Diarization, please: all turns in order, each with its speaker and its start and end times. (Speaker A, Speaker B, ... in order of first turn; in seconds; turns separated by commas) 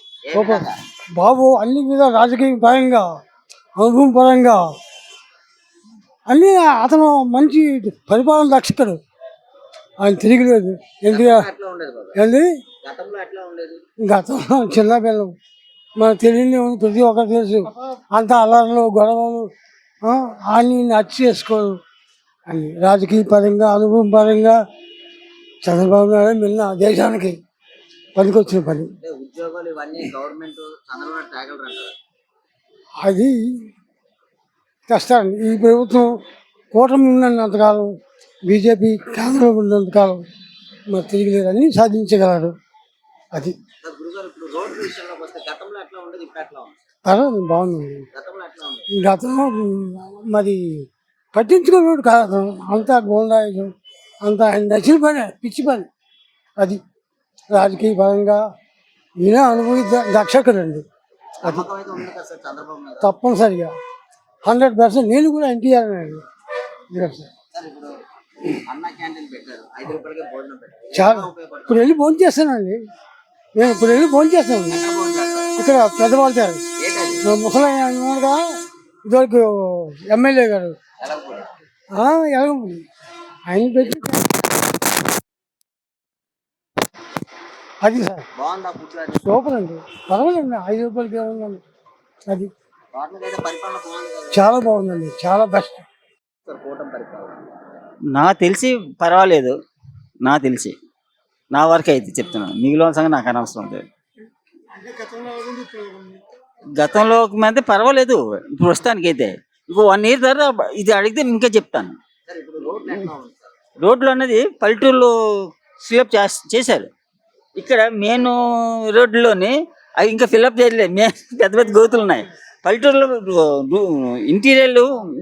Speaker A: 0.3-0.7, Speaker B: 0.3-0.6, Speaker B: 1.2-3.1, Speaker B: 3.8-4.8, Speaker B: 6.3-9.0, Speaker B: 10.0-11.5, Speaker A: 11.1-12.2, Speaker B: 12.2-12.5, Speaker A: 12.8-13.8, Speaker B: 14.0-15.3, Speaker B: 16.0-19.5, Speaker B: 20.0-21.8, Speaker B: 22.5-24.6, Speaker B: 25.6-27.4, Speaker B: 28.2-28.9, Speaker A: 29.0-31.9, Speaker B: 33.0-33.7, Speaker B: 34.9-36.2, Speaker B: 36.7-37.9, Speaker B: 38.5-40.2, Speaker B: 40.9-42.5, Speaker B: 43.3-43.6, Speaker A: 43.8-46.8, Speaker B: 47.0-48.1, Speaker A: 48.1-48.9, Speaker B: 48.9-55.9, Speaker B: 57.5-58.4, Speaker B: 59.2-60.9, Speaker A: 61.4-63.1, Speaker B: 63.0-63.8, Speaker B: 64.5-66.2, Speaker B: 66.9-67.3, Speaker A: 67.5-68.0, Speaker A: 68.5-72.0, Speaker B: 71.0-72.9, Speaker B: 73.5-74.8, Speaker A: 74.7-75.6, Speaker B: 75.6-76.7, Speaker A: 76.8-77.2, Speaker B: 77.2-80.8, Speaker A: 81.0-81.5, Speaker B: 81.9-82.9, Speaker B: 83.5-84.2, Speaker A: 83.8-84.7, Speaker B: 87.8-88.3, Speaker A: 88.4-89.5, Speaker B: 89.3-91.6, Speaker B: 92.3-92.5, Speaker A: 92.9-94.5, Speaker B: 94.3-95.8, Speaker A: 96.4-97.5, Speaker C: 98.1-99.5, Speaker C: 100.2-100.8, Speaker C: 101.5-103.8, Speaker C: 106.8-112.0, Speaker A: 112.3-113.6, Speaker C: 113.8-115.1, Speaker C: 115.8-116.9, Speaker C: 117.6-118.4, Speaker C: 118.9-124.9